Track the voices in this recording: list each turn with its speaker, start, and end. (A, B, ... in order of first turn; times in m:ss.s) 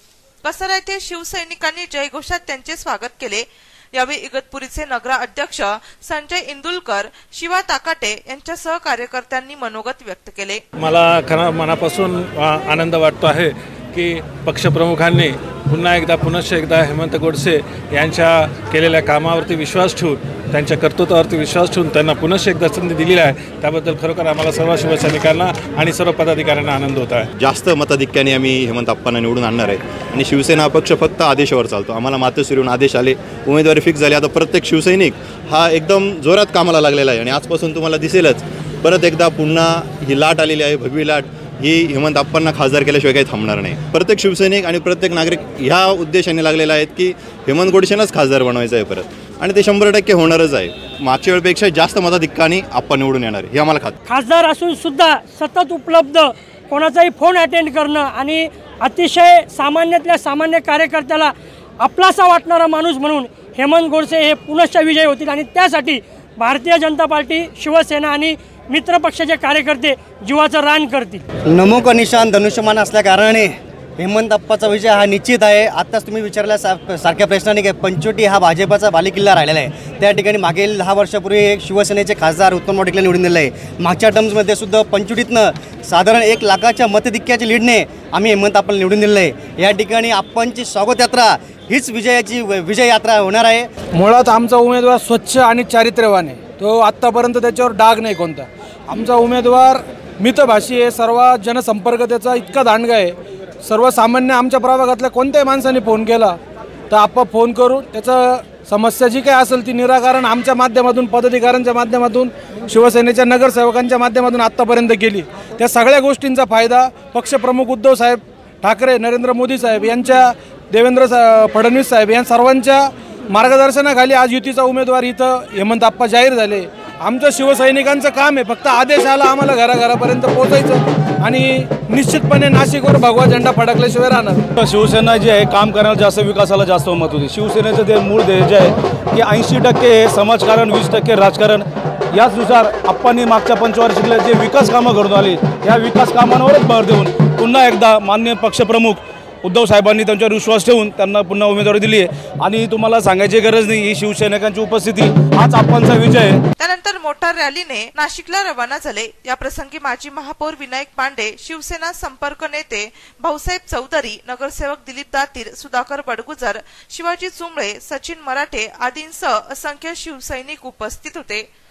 0:00.4-0:03.5 A
0:04.0-0:10.6 A
0:10.8-0:27.3 B
0:27.4-0:53.9 C
0:54.1-1:11.2 D
1:11.5-1:33.7 E
1:33.9-1:46.4 F
1:46.9-2:14.5 F
2:14.6-2:36.4 G
2:36.6-2:51.4 A